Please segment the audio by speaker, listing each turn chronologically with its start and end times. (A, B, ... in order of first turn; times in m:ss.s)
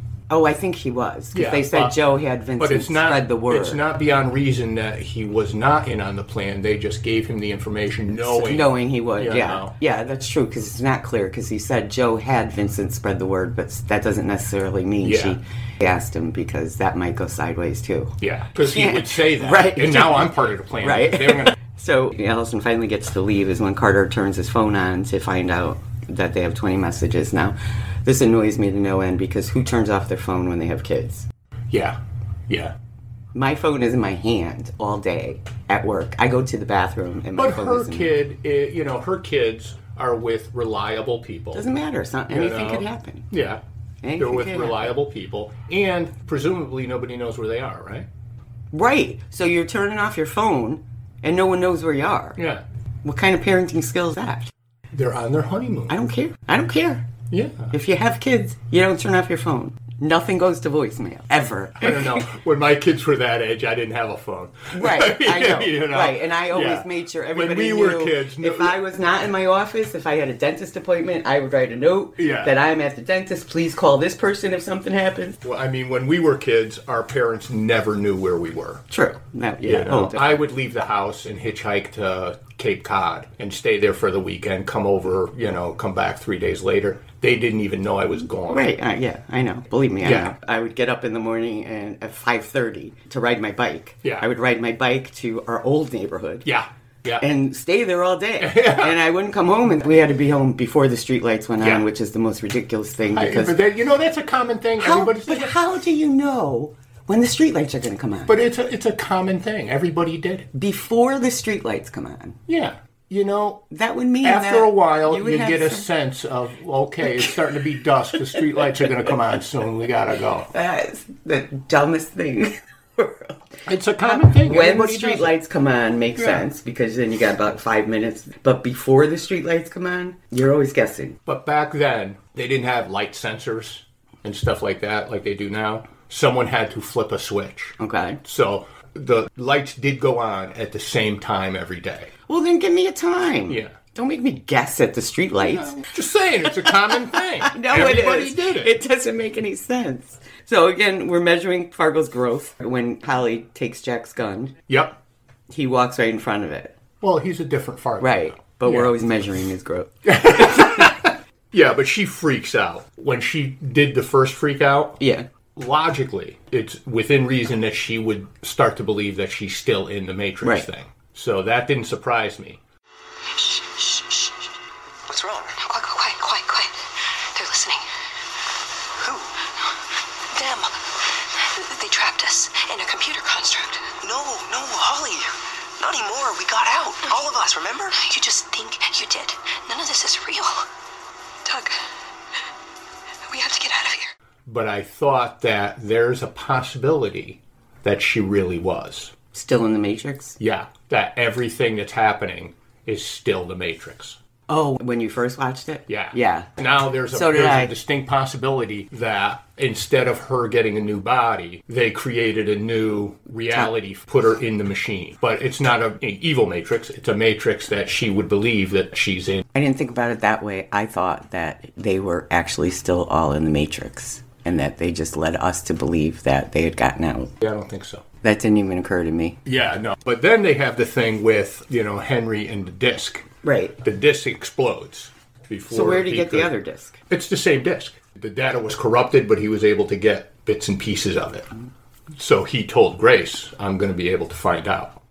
0:00.3-0:03.8 A
0:01.3-0:02.0 B
0:02.6-0:09.7 B
0:08.1-0:31.3 A
0:15.0-0:15.4 B
0:18.2-0:21.6 B
0:31.7-0:32.8 B
0:33.4-0:38.1 A
0:37.4-0:41.7 B
0:41.5-0:43.3 A
0:42.3-0:43.6 B
0:44.0-0:45.0 A
0:44.2-0:48.1 B
0:48.7-0:52.4 A
0:52.4-0:52.6 B
0:53.0-0:54.5 A
0:54.9-0:56.0 B
0:55.9-0:57.1 A
0:57.3-0:57.7 B
0:57.7-1:02.2 A
1:01.8-1:08.8 B
1:04.7-1:15.4 A
1:12.2-1:12.6 B
1:15.4-1:18.8 B
1:18.9-1:20.4 A
1:19.6-1:28.7 B
1:28.5-1:36.5 A
1:30.0-1:30.3 B
1:36.4-1:37.2 B
1:37.2-1:43.6 A
1:38.4-1:39.0 B
1:41.6-1:41.9 B
1:43.1-1:45.6 B
1:44.8-1:48.4 A
1:48.3-1:50.5 B
1:50.5-1:52.4 A
1:52.5-1:53.7 B
1:53.7-1:55.9 A
1:54.2-2:00.5 B
2:00.5-2:03.4 A
2:03.7-2:05.3 B
2:04.0-2:11.2 A
2:06.2-2:06.4 B
2:11.3-2:22.1 B
2:17.8-2:18.2 A
2:22.3-2:25.8 A
2:23.5-2:23.8 B
2:25.5-2:28.7 B
2:27.4-2:34.6 A
2:34.7-2:35.0 B
2:35.5-2:36.8 A
2:37.0-2:38.9 B
2:38.0-2:40.7 A
2:40.0-2:45.0 B
2:45.0-2:45.3 A
2:45.6-2:52.6 B
2:50.4-2:50.7 A
2:53.4-2:54.3 C
2:55.1-2:55.6 D
2:55.6-2:56.8 C
2:57.3-2:57.8 C
2:59.0-2:59.3 D
3:00.3-3:00.8 C
3:01.4-3:03.9 C
3:04.0-3:05.3 D
3:05.8-3:08.0 D
3:08.0-3:10.7 C
3:11.4-3:11.8 C
3:13.3-3:14.1 C
3:14.5-3:19.1 B
3:19.3-3:20.4 A
3:20.4-3:24.2 B
3:24.5-3:26.5 A
3:25.9-3:39.4 B
3:27.1-3:27.7 A
3:39.5-3:47.3 A
3:47.4-3:48.0 B
3:48.2-3:49.4 A
3:49.4-3:53.3 B
3:53.4-3:53.8 A
3:53.8-3:56.5 B
3:55.7-3:57.0 A
3:57.1-4:01.5 B
4:02.1-4:05.0 B